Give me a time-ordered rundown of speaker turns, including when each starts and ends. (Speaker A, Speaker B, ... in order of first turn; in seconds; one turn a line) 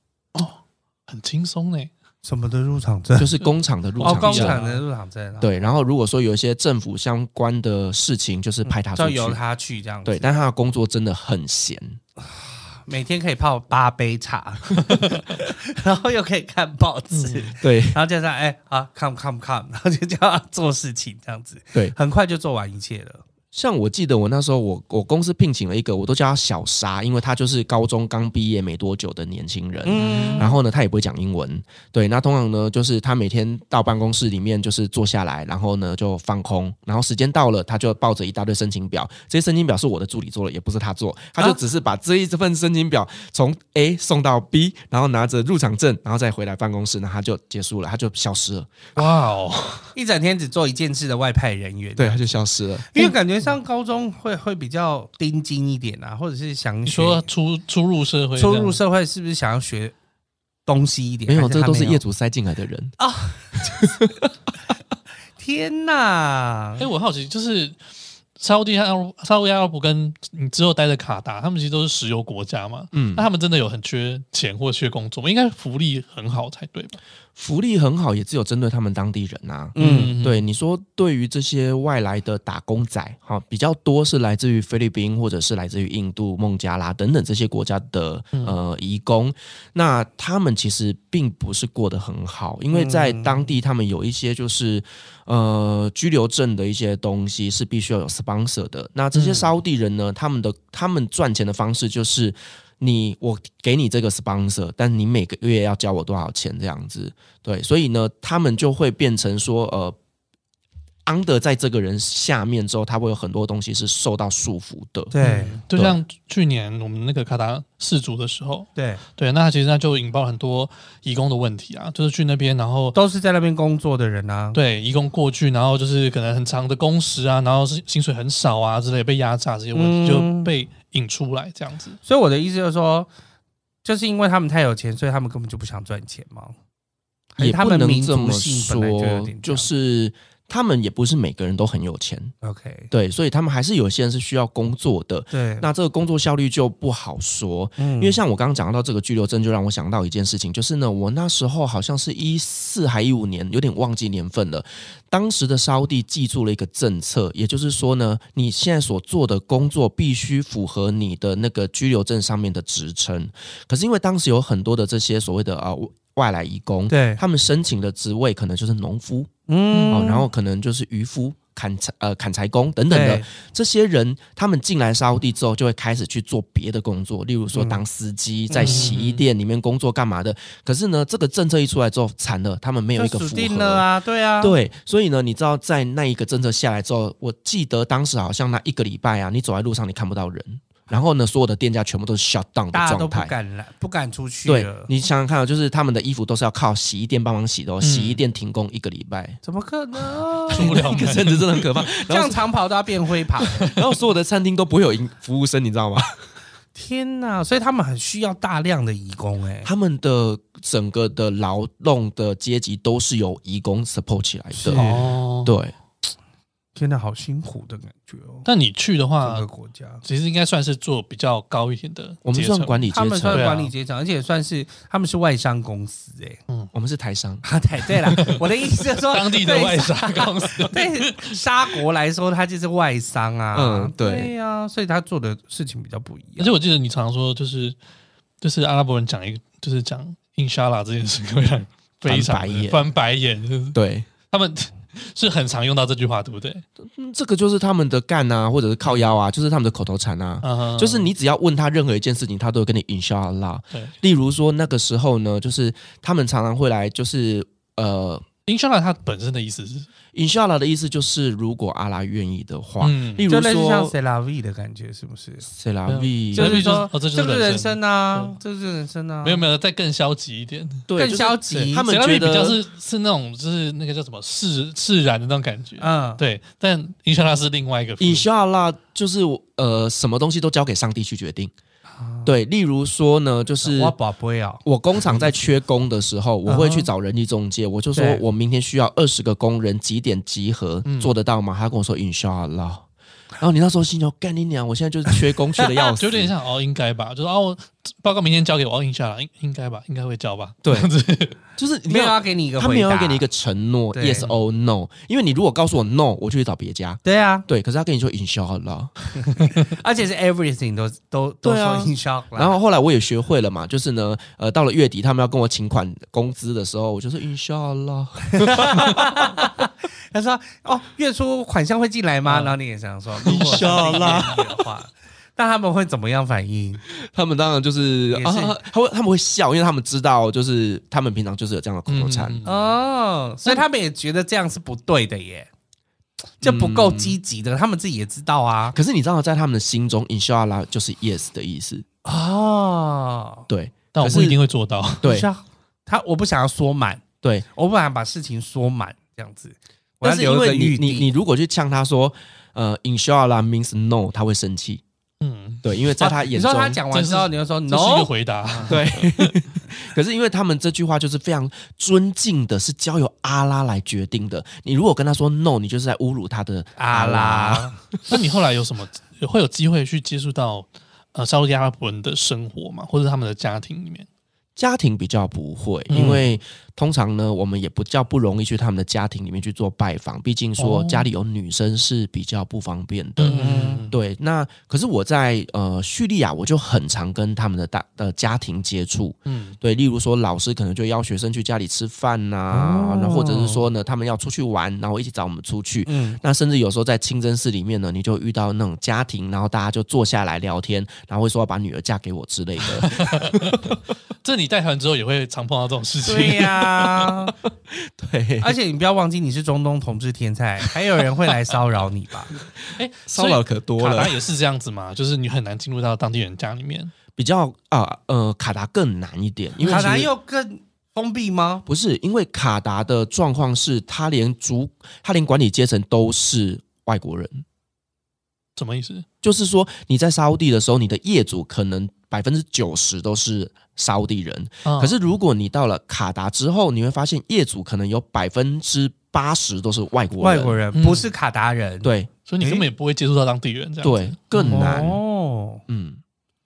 Speaker A: 0.3-1.9
Speaker B: 2.2-3.4
Speaker C: 3.2-4.6
Speaker A: 4.0-4.8
Speaker B: 4.0-5.6
Speaker C: 5.4-9.4
Speaker B: 8.6-10.4
Speaker C: 10.0-12.0
Speaker B: 12.2-23.2
Speaker A: 17.1-17.5
Speaker C: 17.6-18.0
Speaker C: 23.5-48.9
Speaker B: 29.8-30.6
Speaker A: 29.9-30.5
Speaker A: 49.0-49.9
Speaker B: 49.9-52.2
Speaker C: 52.0-52.9
Speaker B: 52.9-57.2
Speaker A: 56.9-58.8
Speaker B: 58.4-59.9
Speaker B: 60.6-62.0
Speaker C: 61.3-63.0
Speaker B: 63.0-63.9
Speaker C: 63.6-64.3
Speaker B: 65.4-66.8
Speaker A: 66.8-67.8
Speaker A: 68.4-77.0
Speaker C: 72.9-73.2
Speaker C: 77.3-110.0
Speaker B: 79.8-80.1
Speaker A: 79.8-80.4
Speaker B: 92.7-93.5
Speaker A: 99.1-99.5
Speaker C: 111.0-115.1
Speaker B: 115.1-115.6
Speaker A: 115.2-123.0
Speaker C: 115.7-116.0
Speaker B: 118.8-119.0
Speaker B: 122.9-124.6
Speaker A: 124.5-132.0
Speaker B: 129.7-130.5
Speaker B: 132.0-133.1
Speaker B: 133.8-136.5
Speaker B: 137.3-139.7
Speaker C: 137.4-142.3
Speaker B: 142.4-142.9
Speaker C: 142.9-169.3
Speaker B: 145.3-145.7
Speaker B: 147.8-148.2
Speaker B: 166.9-167.2
Speaker B: 169.5-170.2
Speaker A: 169.7-170.0
Speaker C: 169.9-183.8
Speaker B: 172.9-173.3
Speaker B: 177.5-177.8
Speaker B: 178.5-179.0
Speaker A: 178.6-179.2
Speaker B: 182.9-184.6
Speaker C: 184.4-193.3
Speaker B: 192.7-194.9
Speaker C: 194.4-199.4
Speaker A: 197.8-198.2
Speaker B: 199.4-201.1
Speaker A: 200.5-201.7
Speaker C: 200.5-202.4
Speaker B: 202.0-203.7
Speaker C: 203.7-206.2
Speaker B: 206.7-209.7
Speaker C: 209.6-214.9
Speaker B: 214.5-215.1
Speaker A: 214.7-215.5
Speaker C: 215.4-215.7
Speaker B: 216.7-218.4
Speaker A: 218.4-219.4
Speaker B: 219.2-220.0
Speaker A: 220.0-223.7
Speaker C: 222.2-223.5
Speaker B: 222.9-226.4
Speaker C: 226.7-227.4
Speaker B: 227.4-236.5
Speaker A: 228.1-231.8
Speaker C: 233.5-234.3
Speaker A: 236.4-237.8
Speaker A: 238.4-246.6
Speaker C: 242.1-242.8
Speaker C: 243.7-244.1
Speaker C: 246.8-258.2
Speaker A: 250.4-251.1
Speaker A: 258.4-259.9
Speaker C: 260.1-263.9
Speaker A: 262.8-263.3
Speaker B: 263.3-265.5
Speaker C: 265.5-266.8
Speaker A: 265.9-268.4
Speaker B: 266.3-269.4
Speaker A: 269.2-270.9
Speaker C: 270.9-272.6
Speaker B: 270.9-271.9
Speaker A: 271.5-278.2
Speaker B: 275.8-276.2
Speaker C: 278.0-281.5
Speaker B: 281.9-282.3
Speaker C: 282.2-283.9
Speaker B: 283.6-284.6
Speaker C: 284.6-292.9
Speaker B: 286.4-286.9
Speaker B: 287.9-288.2
Speaker A: 290.8-291.1
Speaker C: 293.4-296.3
Speaker A: 295.9-301.4
Speaker C: 300.6-300.9
Speaker C: 301.5-308.9
Speaker B: 301.9-303.2
Speaker B: 303.9-304.3
Speaker B: 307.0-307.4
Speaker B: 309.2-312.6
Speaker C: 311.4-319.4
Speaker B: 318.3-326.8
Speaker A: 322.2-322.5
Speaker A: 323.2-324.2
Speaker C: 323.2-324.6
Speaker C: 326.9-332.4
Speaker B: 328.1-328.6
Speaker A: 331.9-332.7
Speaker B: 332.4-335.5
Speaker B: 336.4-338.8
Speaker C: 336.4-337.2
Speaker C: 338.7-341.8
Speaker B: 342.0-343.5
Speaker C: 343.5-344.4
Speaker A: 343.9-345.1
Speaker C: 345.0-345.3
Speaker B: 345.0-347.0
Speaker B: 347.5-351.1
Speaker C: 350.0-354.8
Speaker A: 355.2-355.6
Speaker C: 355.6-356.8
Speaker B: 356.0-358.7
Speaker A: 356.9-359.4
Speaker C: 358.7-368.0
Speaker B: 366.8-367.8
Speaker A: 368.1-374.1
Speaker C: 374.6-403.8
Speaker A: 375.9-376.2
Speaker A: 380.6-381.1
Speaker A: 383.2-383.9
Speaker B: 383.3-383.9
Speaker A: 389.2-389.6
Speaker B: 392.5-393.6
Speaker B: 395.9-396.2
Speaker A: 402.7-407.0
Speaker B: 406.0-407.3
Speaker C: 407.7-408.6
Speaker B: 408.4-412.3
Speaker A: 412.7-416.9
Speaker C: 413.1-414.1
Speaker C: 417.1-420.1
Speaker B: 419.6-421.6
Speaker C: 421.6-427.4
Speaker A: 428.6-429.0
Speaker C: 429.2-440.6
Speaker A: 434.6-434.9
Speaker B: 440.2-442.7
Speaker A: 440.7-441.1
Speaker C: 441.8-442.1
Speaker A: 442.2-444.9
Speaker C: 443.8-445.0
Speaker B: 444.5-445.6
Speaker C: 445.7-446.0